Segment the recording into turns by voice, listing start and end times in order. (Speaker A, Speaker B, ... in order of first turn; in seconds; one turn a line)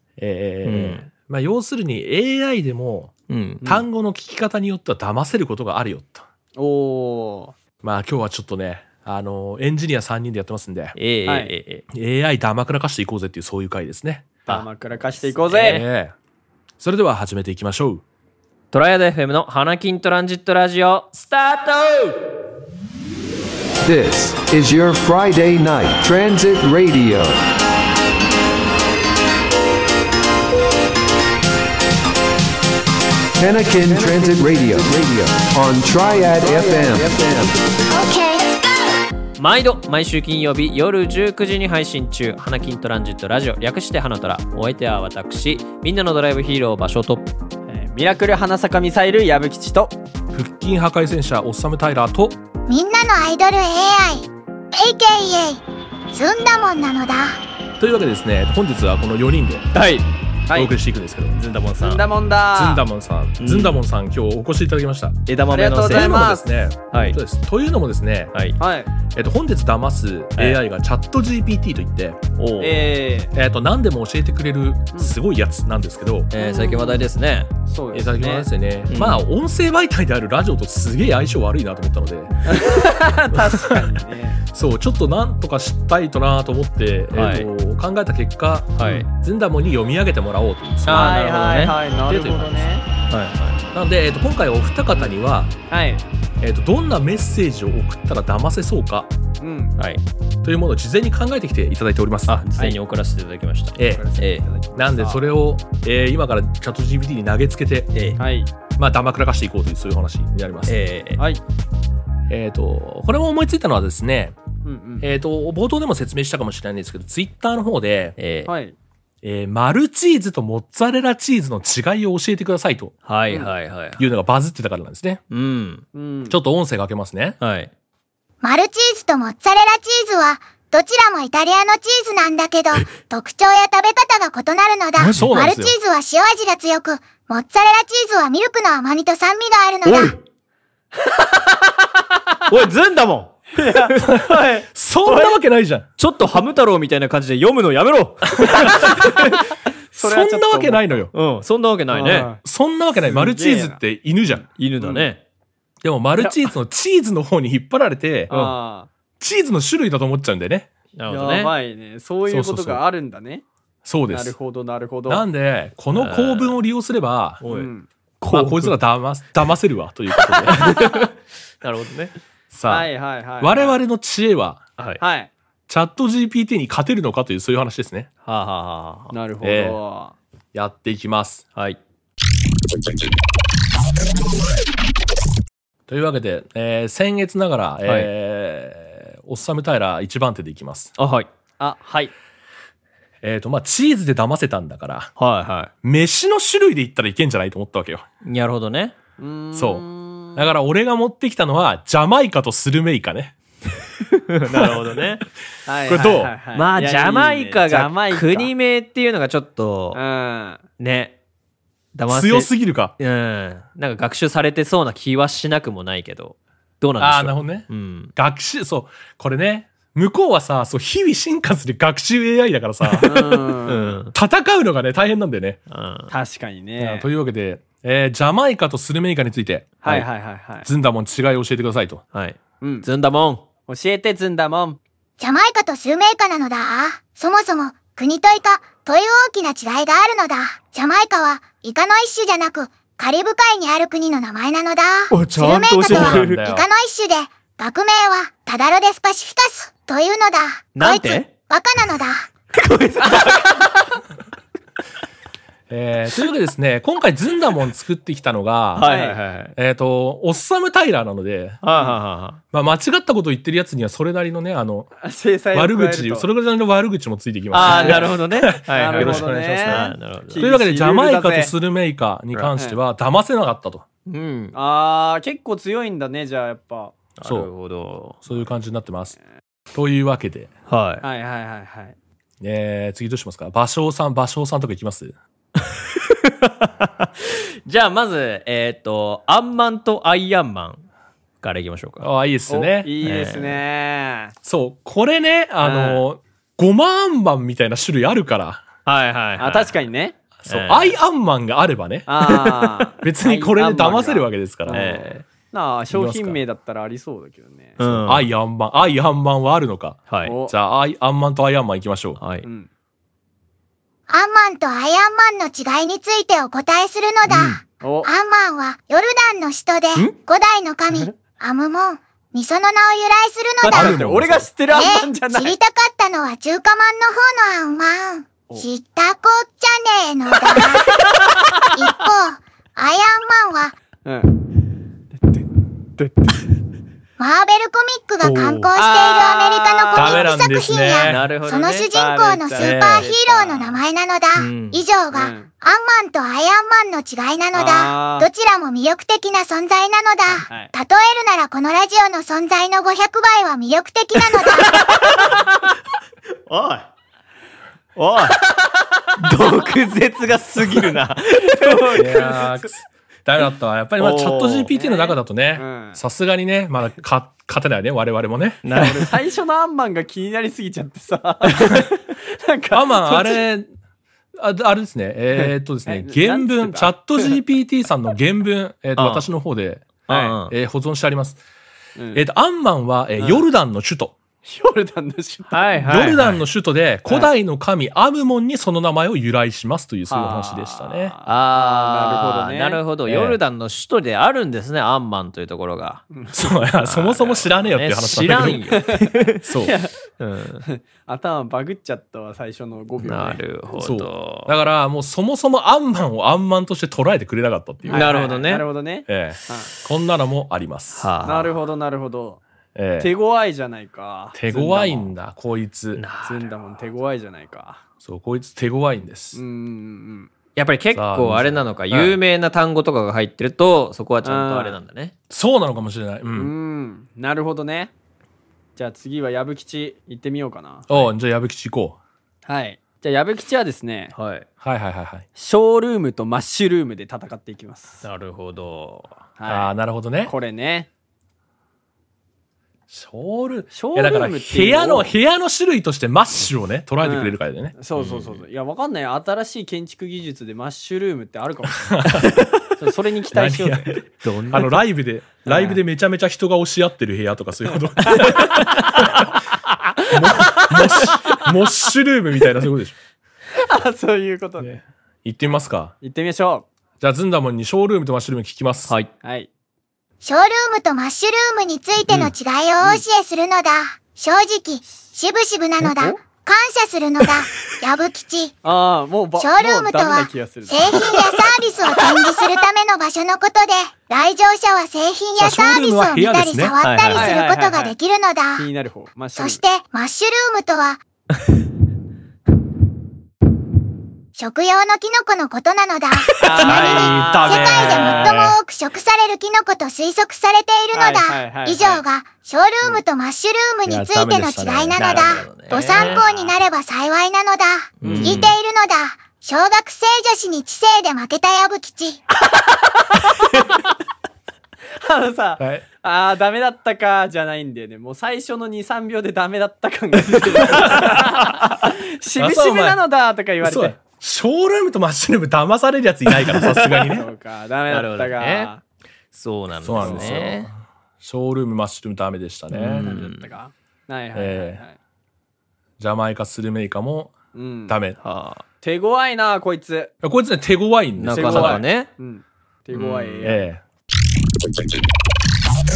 Speaker A: 0.2-3.1
Speaker B: 0.6-1.1
Speaker B: 3.3-3.6
Speaker A: 3.6-6.2
Speaker C: 6.5-7.5
Speaker A: 7.8-10.9
Speaker B: 10.9-11.8
Speaker C: 11.2-11.5
Speaker A: 11.9-14.3
Speaker C: 14.4-15.8
Speaker B: 14.5-15.8
Speaker A: 15.6-16.1
Speaker A: 16.8-18.0
Speaker B: 18.7-22.2
Speaker D: 23.8-27.4
Speaker D: 33.4-37.6
Speaker C: 33.9-34.9
Speaker C: 36.0-37.3
Speaker B: 39.4-47.3
Speaker C: 47.7-49.9
Speaker A: 50.3-52.4
Speaker E: 52.7-57.4
Speaker A: 57.8-59.7
Speaker B: 59.7-60.0
Speaker A: 60.5-61.3
Speaker B: 61.3-62.0
Speaker C: 61.8-62.8
Speaker A: 62.5-65.2
Speaker B: 63.4-63.8
Speaker B: 65.3-66.4
Speaker C: 65.5-66.4
Speaker A: 65.8-68.3
Speaker B: 66.9-67.2
Speaker C: 68.6-68.9
Speaker A: 69.1-72.2
Speaker B: 70.3-70.6
Speaker B: 72.3-72.9
Speaker C: 72.6-73.3
Speaker A: 73.3-76.3
Speaker B: 76.3-77.5
Speaker C: 76.3-77.1
Speaker C: 77.7-78.5
Speaker A: 77.9-83.9
Speaker B: 78.9-79.2
Speaker C: 82.5-84.4
Speaker A: 84.5-91.2
Speaker B: 87.1-87.5
Speaker B: 88.8-89.1
Speaker B: 90.8-91.8
Speaker C: 90.9-92.8
Speaker A: 92.0-92.7
Speaker B: 93.1-93.6
Speaker A: 93.7-95.5
Speaker C: 95.7-96.0
Speaker A: 96.4-99.1
Speaker C: 99.4-99.8
Speaker B: 99.8-100.0
Speaker A: 100.4-102.4
Speaker B: 102.3-104.5
Speaker A: 103.8-104.0
Speaker C: 103.8-105.2
Speaker A: 104.7-107.9
Speaker B: 107.9-108.2
Speaker C: 108.2-108.5
Speaker A: 108.7-110.7
Speaker B: 110.7-111.2
Speaker A: 112.3-114.3
Speaker C: 114.6-115.1
Speaker A: 115.0-118.2
Speaker B: 118.2-118.5
Speaker C: 118.5-118.8
Speaker A: 119.2-122.9
Speaker B: 123.0-124.0
Speaker A: 124.0-125.2
Speaker B: 125.3-125.8
Speaker C: 125.9-126.4
Speaker A: 126.3-127.4
Speaker B: 127.4-127.7
Speaker E: 128.4-140.2
Speaker A: 135.0-135.7
Speaker B: 135.0-135.2
Speaker B: 139.8-140.2
Speaker B: 142.5-145.3
Speaker C: 143.5-144.6
Speaker A: 144.0-145.9
Speaker B: 146.0-149.3
Speaker A: 148.4-149.1
Speaker C: 149.9-151.0
Speaker A: 149.9-151.1
Speaker B: 151.1-152.3
Speaker C: 151.9-152.4
Speaker A: 152.4-154.4
Speaker C: 153.1-153.8
Speaker B: 154.6-155.2
Speaker C: 154.8-155.1
Speaker A: 155.8-158.5
Speaker C: 156.2-156.5
Speaker C: 158.3-158.9
Speaker A: 159.2-160.7
Speaker B: 160.9-161.5
Speaker C: 161.1-163.4
Speaker A: 162.3-162.8
Speaker A: 163.8-164.3
Speaker C: 164.1-165.2
Speaker A: 165.1-167.4
Speaker B: 165.9-166.6
Speaker B: 167.4-167.7
Speaker C: 167.5-167.9
Speaker B: 168.2-168.8
Speaker A: 168.2-170.7
Speaker B: 170.3-172.1
Speaker A: 172.5-174.6
Speaker C: 172.7-173.8
Speaker B: 174.8-175.0
Speaker C: 175.0-175.3
Speaker A: 175.7-178.1
Speaker B: 178.2-179.1
Speaker C: 179.1-180.1
Speaker A: 179.4-179.8
Speaker A: 180.5-181.4
Speaker A: 185.9-190.9
Speaker B: 187.8-188.1
Speaker B: 191.0-191.3
Speaker C: 191.6-192.1
Speaker A: 193.2-195.1
Speaker B: 195.2-195.7
Speaker A: 195.8-198.0
Speaker B: 198.2-198.9
Speaker C: 199.2-200.4
Speaker A: 199.5-203.3
Speaker B: 204.1-205.2
Speaker C: 205.7-208.5
Speaker A: 205.9-206.3
Speaker B: 206.5-210.0
Speaker C: 209.9-210.6
Speaker B: 210.8-211.2
Speaker B: 211.9-218.1
Speaker A: 212.1-212.9
Speaker A: 217.0-223.6
Speaker C: 223.0-224.0
Speaker B: 223.7-224.1
Speaker A: 224.1-225.6
Speaker B: 225.7-226.1
Speaker C: 226.1-227.1
Speaker A: 226.8-230.1
Speaker C: 229.8-230.7
Speaker A: 230.6-232.0
Speaker B: 232.1-233.4
Speaker C: 232.6-232.9
Speaker C: 233.7-234.8
Speaker E: 235.2-252.3
Speaker B: 245.1-246.4
Speaker A: 245.8-246.7
Speaker B: 250.8-251.3
Speaker B: 252.5-253.9
Speaker C: 253.1-253.4
Speaker A: 255.7-258.9
Speaker B: 258.7-259.5
Speaker C: 258.8-259.2
Speaker A: 259.5-261.6
Speaker B: 261.6-262.4
Speaker C: 261.7-262.0
Speaker A: 262.5-264.9
Speaker C: 265.0-266.3
Speaker A: 265.5-273.9
Speaker B: 267.5-270.4
Speaker C: 267.6-268.2
Speaker C: 268.7-271.5
Speaker B: 274.1-274.6
Speaker C: 274.5-277.0
Speaker B: 277.2-278.2
Speaker A: 277.2-277.5
Speaker A: 278.2-279.1
Speaker A: 279.7-280.5
Speaker B: 280.7-281.0
Speaker C: 281.0-281.9
Speaker A: 282.4-285.1
Speaker B: 285.6-290.9
Speaker B: 291.4-292.1
Speaker A: 292.0-292.9
Speaker C: 292.5-294.3
Speaker B: 293.0-293.6
Speaker A: 294.4-298.6
Speaker C: 295.6-296.0
Speaker B: 298.8-299.8
Speaker C: 299.4-300.2
Speaker A: 300.4-302.3
Speaker B: 300.4-301.0
Speaker C: 302.1-308.1
Speaker B: 302.2-302.9
Speaker A: 303.0-304.8
Speaker B: 304.7-305.2
Speaker A: 305.9-306.4
Speaker B: 307.8-308.3
Speaker A: 308.1-312.2
Speaker B: 310.1-310.4
Speaker C: 310.2-310.5
Speaker B: 312.2-312.5
Speaker E: 314.1-323.9
Speaker B: 317.3-317.6
Speaker C: 317.8-318.1
Speaker C: 323.6-325.5
Speaker A: 323.7-324.5
Speaker E: 324.7-331.0
Speaker C: 330.5-331.9
Speaker E: 331.7-333.7
Speaker C: 334.0-334.4
Speaker C: 335.1-336.4
Speaker E: 337.2-354.8
Speaker A: 338.2-338.7
Speaker C: 338.7-340.3
Speaker A: 339.9-341.3
Speaker B: 341.0-341.9
Speaker C: 341.9-343.8
Speaker B: 342.5-343.1
Speaker B: 344.4-344.8
Speaker C: 345.1-345.5
Speaker C: 347.5-348.3
Speaker C: 350.5-350.7
Speaker B: 354.4-355.5
Speaker B: 356.5-356.9
Speaker B: 357.9-358.4
Speaker B: 359.2-362.1
Speaker C: 361.4-362.6
Speaker A: 361.9-368.6
Speaker B: 364.0-364.7
Speaker C: 364.7-366.0
Speaker B: 368.6-369.1
Speaker C: 368.7-373.4
Speaker A: 371.5-371.9
Speaker A: 372.7-373.7
Speaker A: 374.4-381.4
Speaker C: 375.3-377.4
Speaker B: 378.9-379.3
Speaker B: 380.1-380.5
Speaker C: 380.1-380.4
Speaker C: 381.9-382.2
Speaker A: 382.1-384.1
Speaker C: 383.2-383.4
Speaker C: 384.4-385.8
Speaker B: 385.5-386.4
Speaker A: 385.9-391.1
Speaker C: 390.1-392.8
Speaker B: 391.2-396.0
Speaker A: 393.1-393.4
Speaker C: 396.1-396.5
Speaker A: 396.3-398.7
Speaker B: 396.8-399.4
Speaker C: 398.7-399.9
Speaker A: 399.4-399.7
Speaker B: 400.2-400.6
Speaker C: 400.6-403.4
Speaker B: 403.0-404.5
Speaker A: 403.8-408.1
Speaker C: 407.8-409.7
Speaker B: 407.9-408.6
Speaker A: 409.1-411.1
Speaker B: 410.9-411.5
Speaker C: 411.2-412.4
Speaker A: 412.7-413.1
Speaker C: 413.0-415.1
Speaker A: 414.3-416.0
Speaker B: 415.9-416.5
Speaker C: 416.2-417.8
Speaker A: 418.0-419.4
Speaker C: 419.3-420.3
Speaker B: 420.6-425.1
Speaker A: 420.9-422.2
Speaker C: 424.2-424.8
Speaker A: 425.3-426.5
Speaker C: 426.3-427.9
Speaker C: 428.8-431.1
Speaker A: 430.9-432.0
Speaker C: 432.4-434.1
Speaker B: 434.1-434.5
Speaker A: 434.6-435.2
Speaker C: 435.4-438.0
Speaker B: 438.0-439.2
Speaker C: 439.4-439.7
Speaker A: 439.5-440.3
Speaker C: 440.2-440.9
Speaker A: 442.9-447.7
Speaker C: 443.7-445.1
Speaker C: 447.0-452.1
Speaker B: 447.9-448.4
Speaker A: 451.8-452.3
Speaker C: 452.8-453.9
Speaker A: 453.3-459.4
Speaker B: 454.1-454.8
Speaker C: 455.4-455.8
Speaker B: 458.2-459.1
Speaker A: 460.1-462.9
Speaker C: 460.6-461.1
Speaker C: 463.6-464.8
Speaker A: 464.6-465.9
Speaker C: 466.0-466.7
Speaker A: 467.0-468.9
Speaker B: 468.9-469.1
Speaker C: 469.2-469.5
Speaker E: 470.2-478.6
Speaker C: 475.8-476.2
Speaker C: 478.6-481.5
Speaker E: 479.4-488.6
Speaker A: 485.4-486.8
Speaker B: 486.8-487.3
Speaker C: 487.1-487.9
Speaker C: 488.6-489.6
Speaker E: 489.4-491.0
Speaker E: 494.4-512.2
Speaker B: 496.4-496.9
Speaker C: 496.4-498.4
Speaker A: 496.6-498.4
Speaker B: 497.7-498.5
Speaker C: 500.9-502.0
Speaker A: 503.9-505.4
Speaker B: 504.9-506.5
Speaker C: 505.7-506.3
Speaker A: 508.0-508.5
Speaker B: 508.0-508.6
Speaker C: 513.0-513.6
Speaker C: 515.0-524.0
Speaker A: 515.6-515.8
Speaker A: 520.6-521.4
Speaker A: 522.4-523.0
Speaker A: 523.6-527.3
Speaker C: 526.8-528.8
Speaker B: 527.9-528.7
Speaker B: 529.3-530.7
Speaker A: 529.8-533.0
Speaker C: 530.0-530.3
Speaker B: 532.7-533.5
Speaker C: 532.9-535.0
Speaker A: 534.3-534.8
Speaker A: 536.0-537.3
Speaker C: 537.5-538.0
Speaker A: 537.9-538.2
Speaker B: 538.2-538.6
Speaker C: 538.8-540.1
Speaker A: 540.2-541.8
Speaker B: 541.2-542.1
Speaker C: 541.3-543.6
Speaker B: 542.9-543.5
Speaker A: 543.4-543.8